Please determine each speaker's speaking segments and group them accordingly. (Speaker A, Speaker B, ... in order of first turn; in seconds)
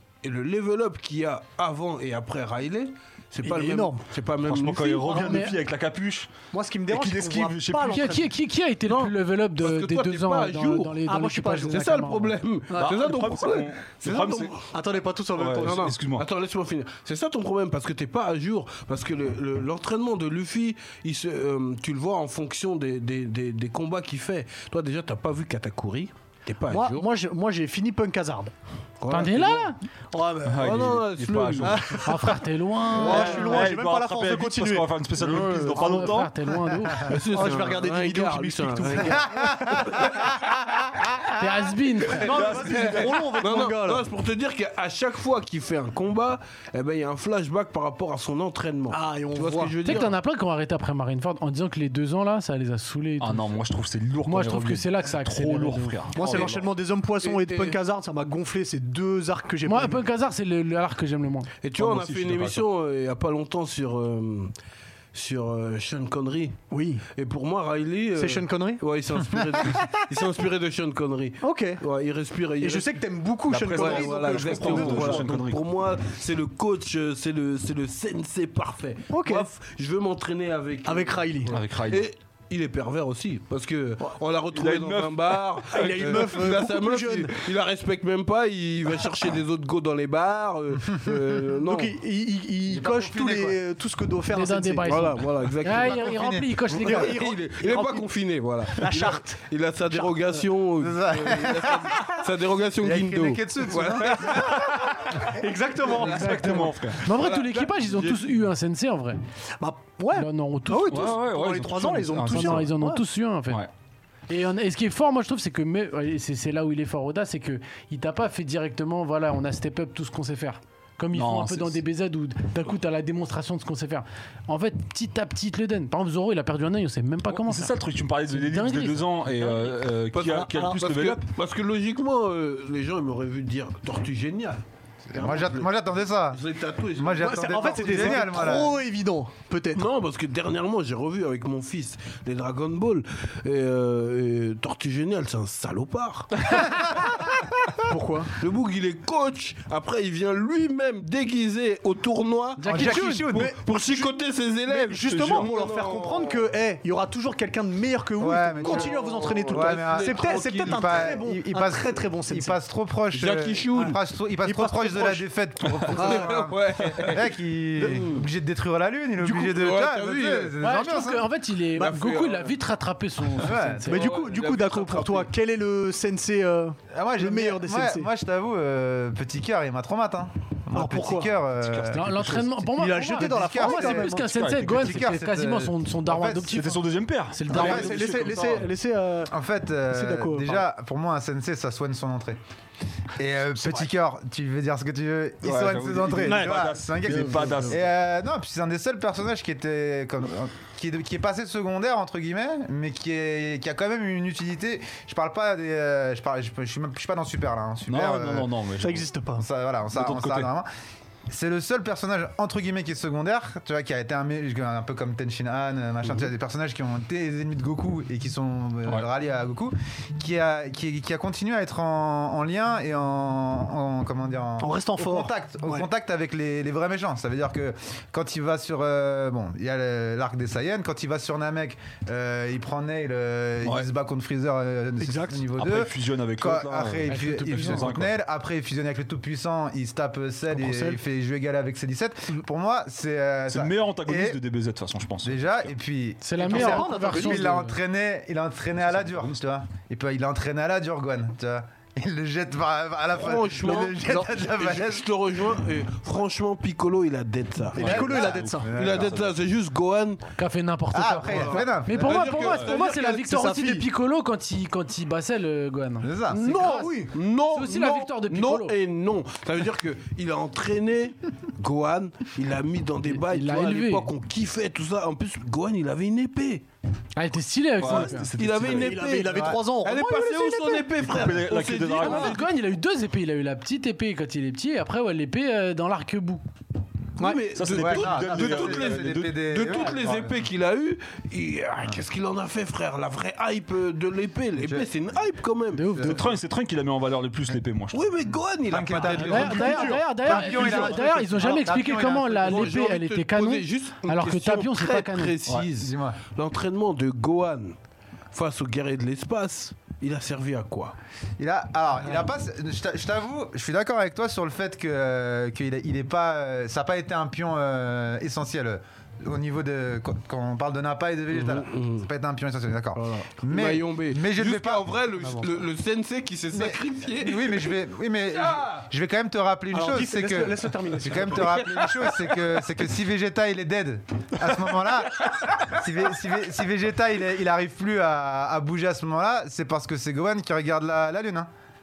Speaker A: 0.2-5.4, 8.9-11.0, 11.7-14.6, 15.6-27.1, 29.0-29.7, 30.6-32.0, 33.1-33.4, 37.0-39.3, 42.5-50.1, 56.2-56.5, 57.2-57.8, 61.6-64.5, 65.1-66.6, 67.1-72.9, 73.7-92.0, 94.8-104.7, 106.9-108.2, 130.1-135.8, 136.3-138.6, 139.7-146.5, 148.4-156.4, 158.6-161.2, 163.1-164.0, 165.9-168.3, 169.2-170.6, 171.7-172.5, 173.9-175.3, 253.1-258.2, 258.7-260.3, 261.3-263.0, 267.1-276.6, 278.4-282.4, 287.2-296.0, 297.9-299.8, 302.4-307.8, 308.3-310.9, 321.3-322.1, 323.4-327.8, 328.4-328.8
Speaker B: 3.4-4.0, 6.5-8.3, 11.1-12.0, 12.7-13.1, 14.7-15.9, 26.7-28.5, 30.1-31.0, 31.6-36.1, 37.1-40.3, 42.1-44.0, 48.9-49.8, 56.1-60.0, 66.7-67.0, 68.2-68.8, 71.4-71.8, 72.6-75.4, 79.1-79.5, 80.8-81.5, 85.7-87.4, 91.6-94.9, 96.8-98.0, 98.7-100.4, 104.0-106.8, 109.6-113.0, 130.3-130.9, 137.2-139.8, 147.8-148.3, 152.7-154.1, 154.7-162.6, 163.7-165.2, 165.9-166.5, 173.8-178.1, 180.7-181.4, 182.7-184.2, 187.5-189.3, 189.9-190.6, 193.6-193.9, 196.2-196.7, 208.8-209.4, 224.6-225.9, 235.0-235.5, 246.4-247.5, 257.8-258.7, 262.4-263.9, 266.4-267.1, 278.6-280.9, 299.0-300.9, 329.7-331.8
Speaker C: 4.5-6.3, 6.9-8.1, 12.8-14.5, 15.3-16.2, 30.4-32.1, 33.0-36.3, 42.2-43.4, 53.2-56.7, 61.8-62.6, 73.5-75.6, 81.5-82.1, 84.5-86.3, 106.0-107.0, 110.9-112.7, 121.1-121.8, 127.3-131.2, 155.1-155.5, 181.7-182.6, 184.2-185.0, 186.5-188.7, 195.4-197.9, 207.9-209.1, 209.9-210.5, 235.6-238.2, 243.5-245.5, 248.9-249.3, 257.9-259.3, 277.8-279.0, 281.0-282.4, 287.5-289.3, 296.0-298.1
Speaker D: 5.1-5.6, 7.8-12.3, 29.1-29.8, 32.0-33.6, 35.2-37.1, 41.4-42.3, 49.8-53.5, 54.2-56.0, 59.6-61.5, 94.3-97.1, 106.0-109.2, 110.1-111.2, 112.3-113.7, 114.3-127.7, 128.3-129.3, 152.6-153.2, 170.6-174.1, 181.9-187.9, 237.1-237.9, 240.5-241.0, 246.2-247.8, 260.4-268.7, 273.1-274.1, 277.2-278.3, 282.0-286.4, 295.7-296.2, 299.2-305.3
Speaker E: 39.3-39.8, 92.7-93.6, 95.7-96.7, 100.8-102.1, 102.8-104.6, 135.1-136.4, 136.9-138.7, 152.7-153.5, 158.2-158.9, 159.5-171.3, 173.3-173.9, 176.9-186.8, 187.5-188.6, 189.3-192.4, 193.2-208.5, 209.4-210.7, 211.3-244.4, 245.2-255.1, 257.8-259.2, 260.9-262.2, 266.0-266.4, 279.2-279.6, 287.7-290.2, 294.6-294.9, 298.7-302.6, 305.6-306.2, 311.4-325.4, 326.5-341.5